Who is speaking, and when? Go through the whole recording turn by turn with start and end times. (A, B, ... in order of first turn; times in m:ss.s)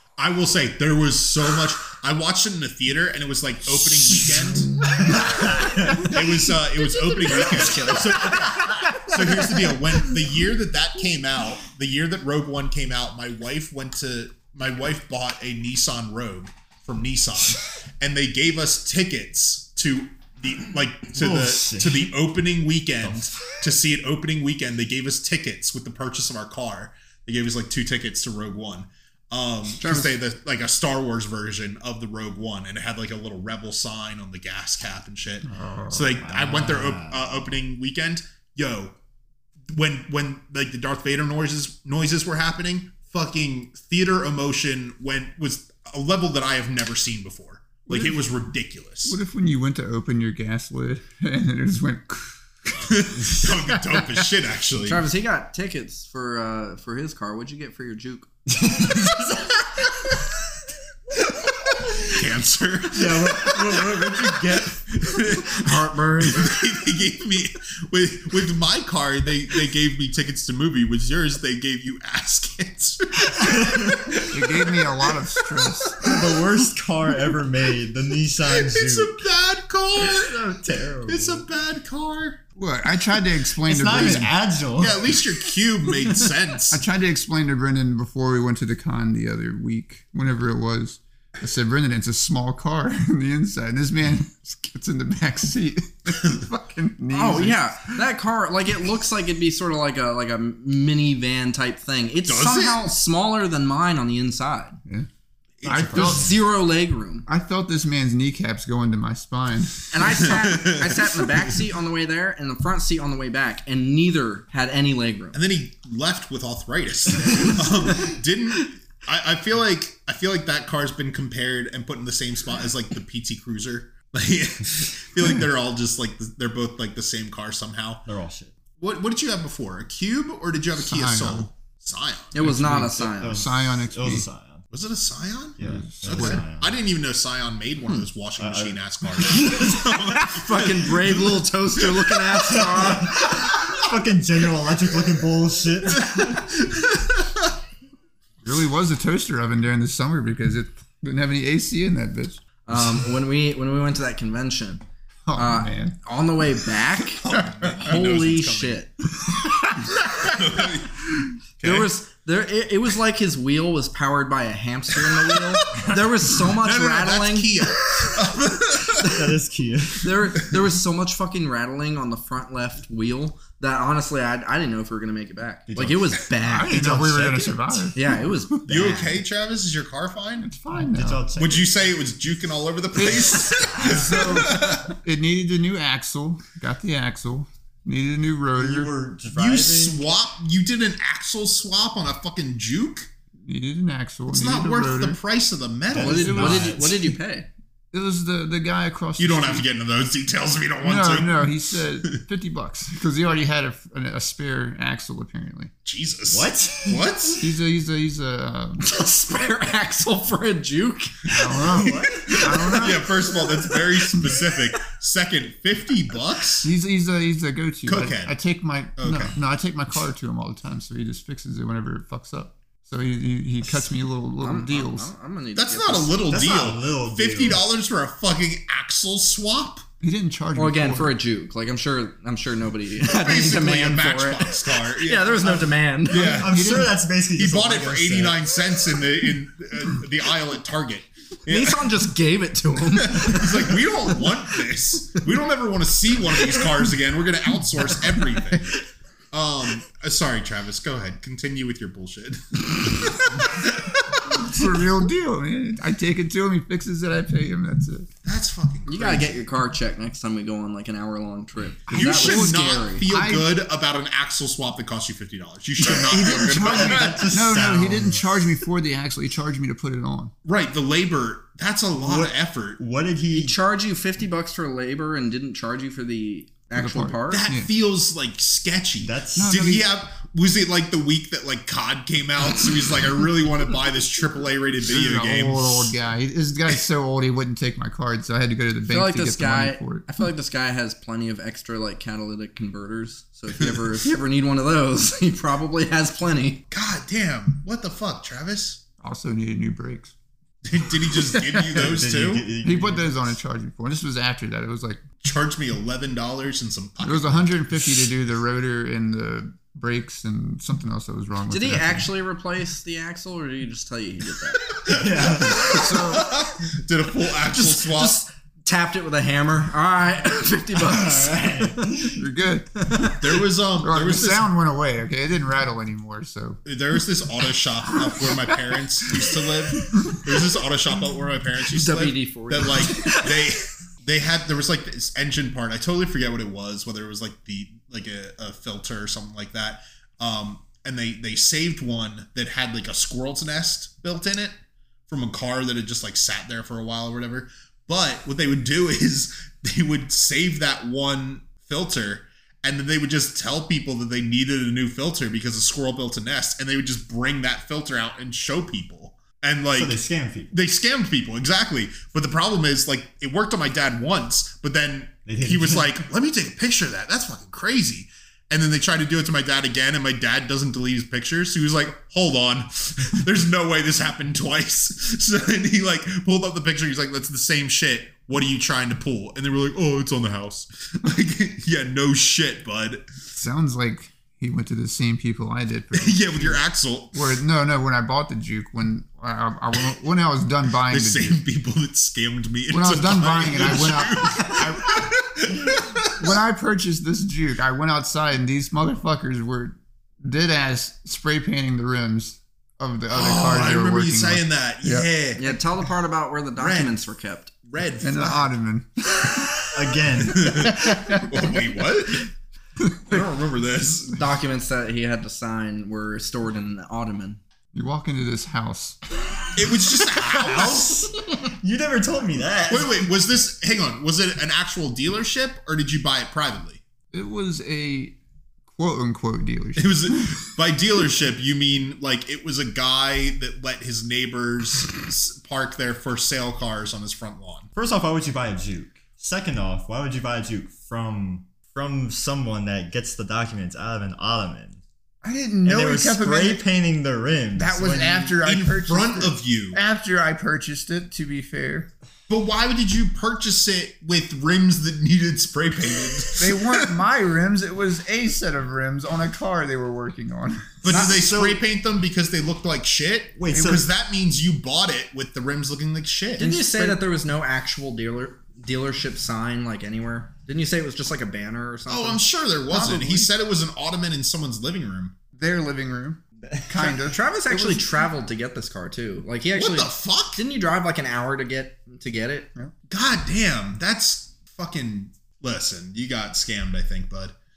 0:00.2-0:39.0 A
0:03.7-0:06.2 B
0:06.8-0:08.3 C
0:21.1-0:22.2 B
0:23.0-0:23.6 B
0:29.7-0:30.1 C
0:35.4-0:36.2 D
0:36.2-0:37.5 B
0:39.7-0:49.2 A
0:47.9-0:48.2 D
0:49.0-0:52.9 D
0:52.8-0:55.0 A
0:53.7-0:54.0 D
0:54.8-0:58.3 C
0:58.5-1:00.1 B
1:01.6-1:02.1 B
1:01.9-1:16.4 A
1:02.9-1:06.2 B
1:05.7-1:06.4 C
1:13.4-1:14.2 B
1:14.3-1:16.0 D
1:16.0-1:19.2 B
1:18.4-1:20.4 A
1:20.0-1:21.5 B
1:21.0-1:22.4 A
1:22.6-1:24.4 D
1:23.6-1:25.5 B
1:24.8-1:26.8 A
1:26.7-1:38.0 D
1:37.1-1:44.8 C
1:42.3-1:42.8 A
1:45.6-1:46.4 A
1:45.6-1:46.3 D
1:45.8-1:47.3 C
1:47.3-1:50.2 D
1:49.9-1:55.4 C
1:50.0-1:51.3 A
1:55.3-2:08.1 A
2:08.1-2:08.5 B
2:08.8-2:12.4 A
2:10.8-2:11.5 D
2:12.3-2:13.4 C
2:12.4-2:14.3 D
2:13.0-2:14.6 B
2:14.7-2:22.6 A
2:15.6-2:16.8 B
2:15.6-2:16.4 D
2:18.4-2:19.8 B
2:19.5-2:23.4 C
2:22.5-2:26.4 B
2:25.9-2:27.5 A
2:28.4-2:32.4 D
2:32.7-2:34.8 C
2:35.3-2:36.0 D
2:35.4-2:38.9 C
2:37.2-2:38.8 A
2:37.3-2:37.7 D
2:39.3-2:40.4 D
2:40.2-2:41.1 A
2:41.6-2:41.9 A
2:41.6-2:47.6 C
2:45.1-2:49.2 A
2:49.0-2:49.3 C
2:49.0-2:50.3 B
2:50.0-2:56.9 C
2:55.7-2:57.9 B
2:56.5-2:58.5 D
2:58.0-2:59.2 C
2:58.7-3:00.5 A
3:00.4-3:01.2 D
3:00.7-3:02.0 B
3:01.4-3:04.9 A
3:03.0-3:08.9 D
3:08.6-3:10.0 B
3:09.3-3:13.1 A
3:13.4-3:15.2 D
3:14.3-3:16.6 A
3:15.9-3:17.1 B
3:16.0-3:17.5 C
3:16.0-3:16.8 D
3:17.9-3:19.7 D
3:19.2-3:21.6 A
3:20.8-3:25.7 D
3:25.8-3:27.5 A
3:26.3-3:27.3 B
3:27.4-3:28.9 D
3:28.8-3:31.2 C
3:31.3-3:33.1 D
3:31.5-3:32.9 B
3:32.2-3:36.7 A
3:33.3-3:34.4 C
3:36.6-3:45.1 D
3:37.9-3:38.4 A
3:39.0-3:39.4 A
3:44.4-3:46.3 C
3:45.6-3:49.8 A
3:46.3-3:47.7 B
3:50.0-3:51.2 D
3:50.6-3:56.4 C
3:53.0-4:01.9 A
3:56.2-3:56.9 D
3:56.2-3:58.4 B
4:01.5-4:03.9 C
4:03.0-4:08.8 A
4:09.3-4:14.5 A
4:14.4-4:18.1 D
4:18.2-4:19.4 A
4:18.9-4:23.1 C
4:21.9-4:23.5 D
4:21.9-4:27.4 A
4:25.9-4:28.2 B
4:26.1-4:30.3 D
4:30.4-4:32.8 A
4:32.0-4:33.6 B
4:33.3-4:37.5 C
4:36.8-4:37.7 D
4:37.3-4:46.0 A
4:39.0-4:39.7 B
4:39.4-4:39.8 D
4:44.9-4:50.1 D
4:48.9-4:56.6 C
4:56.7-4:58.8 A
4:59.0-5:00.1 D
5:00.6-5:02.4 A
5:01.7-5:03.3 B
5:02.6-5:05.0 D
5:05.2-5:08.1 A
5:07.0-5:12.1 D
5:11.5-5:14.7 C
5:14.7-5:18.2 A
5:14.9-5:15.7 B
5:15.7-5:16.3 D
5:17.5-5:22.1 C
5:20.8-5:22.2 B
5:22.2-5:22.7 D
5:22.8-5:23.3 C
5:23.2-5:24.5 A
5:23.8-5:26.6 D
5:26.6-6:00.0 A
5:31.6-5:33.5 C
5:59.7-6:00.5 B
6:00.5-6:23.1 A
6:05.3-6:06.0 B
6:23.3-6:31.4 D
6:25.9-6:27.2 A
6:30.9-6:36.3 A
6:32.7-6:35.1 D
6:36.2-6:45.1 D
6:43.1-6:45.6 A
6:45.4-6:47.6 C
6:46.6-6:46.9 A
6:47.7-6:48.5 A
6:48.0-6:48.9 D
6:49.7-6:50.7 B
6:50.0-6:52.3 A
6:50.7-6:51.3 D
6:53.0-6:54.2 A
6:54.2-6:57.4 C
6:57.7-6:59.0 D
6:59.6-7:01.1 A
7:01.5-7:03.1 B
7:02.7-7:06.8 A
7:07.1-7:10.4 D
7:09.8-7:17.7 A
7:17.8-7:24.8 B
7:25.2-7:26.6 D
7:25.6-7:28.3 B
7:27.6-7:31.9 D
7:28.3-7:29.8 A
7:32.3-7:36.9 A
7:36.4-7:40.8 D
7:40.8-7:46.6 A
7:40.9-7:41.3 C
7:40.9-7:41.6 B
7:43.4-7:43.9 B
7:43.5-7:43.8 D
7:46.4-7:52.2 C
7:46.7-7:47.0 D
7:51.9-7:55.1 A
7:52.7-7:53.3 D
7:55.4-7:58.0 D
7:56.8-8:02.5 C
7:59.6-8:00.4 A
8:02.9-8:07.4 A